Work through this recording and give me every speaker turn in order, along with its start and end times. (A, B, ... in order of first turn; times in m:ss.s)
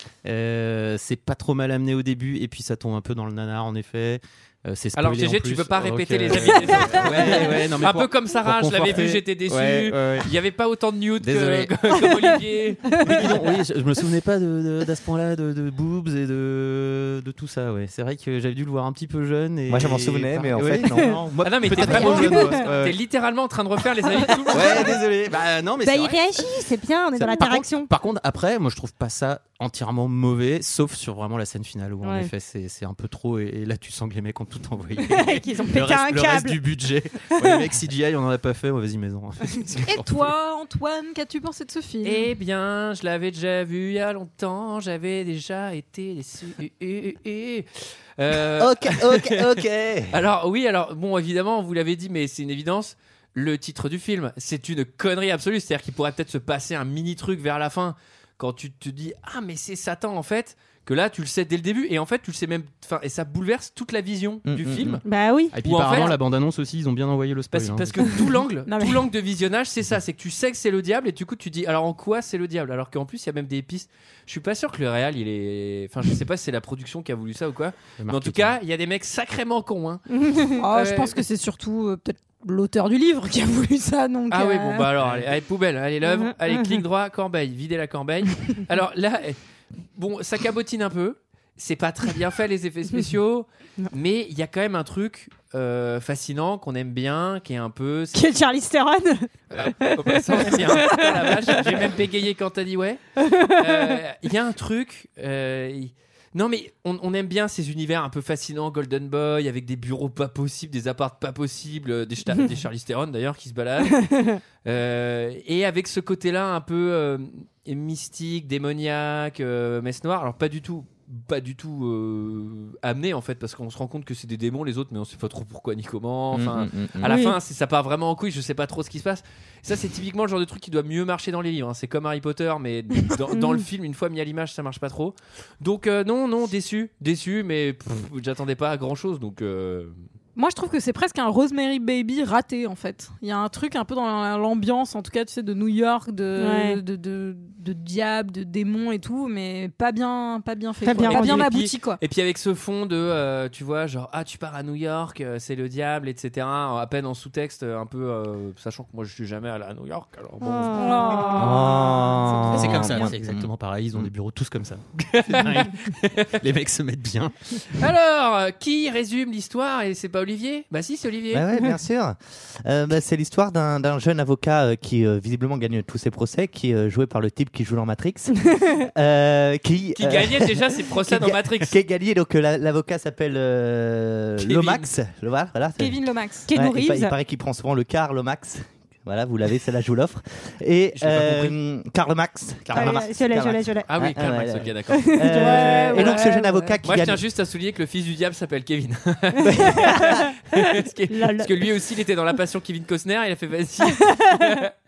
0:00.2-0:10.3 A
0:05.0-0:13.0 B
0:11.2-0:11.7 A
0:13.0-0:13.3 C
0:13.0-0:23.0 A
0:19.7-0:22.4 D
0:21.4-0:24.9 B
0:21.8-0:22.6 C
0:24.4-0:24.9 C
0:24.5-0:26.5 A
0:25.8-0:27.9 C
0:27.2-0:40.3 A
0:32.0-0:32.3 C
0:35.1-0:36.6 C
0:39.8-0:42.3 E
0:42.0-1:05.0 B
0:48.6-0:50.1 D
1:04.4-1:05.0 D
1:05.0-1:06.1 C
1:05.5-1:08.1 A
1:05.6-1:06.1 B
1:07.5-1:20.1 B
1:08.6-1:09.0 E
1:18.0-1:18.6 A
1:20.2-1:20.5 C
1:20.6-1:24.9 E
1:20.7-1:21.2 B
1:24.3-1:29.4 B
1:26.0-1:26.8 C
1:30.0-1:38.2 B
1:38.1-1:41.6 C
1:39.5-2:19.9 B
1:43.2-1:44.0 C
2:06.3-2:07.2 D
2:07.0-2:07.4 C
2:13.3-2:13.6 C
2:20.3-2:32.0 E
2:26.4-2:26.8 C
2:30.8-2:31.5 C
2:31.0-2:40.8 B
2:40.4-2:42.1 C
2:40.7-2:43.1 E
2:41.4-2:44.1 D
2:42.5-2:47.3 A
2:45.1-2:46.2 B
2:47.8-2:51.4 B
2:51.3-3:06.0 D
3:00.0-3:01.7 B
3:04.4-3:04.8 B
3:05.8-3:06.5 E
3:06.5-3:07.1 C
3:06.5-3:17.2 D
3:11.0-3:11.5 B
3:11.1-3:11.5 A
3:12.7-3:13.9 C
3:13.9-3:15.2 B
3:14.9-3:16.7 C
3:15.4-3:16.7 E
3:16.8-3:24.7 B
3:19.4-3:20.2 C
3:19.4-3:20.2 D
3:21.1-3:21.7 C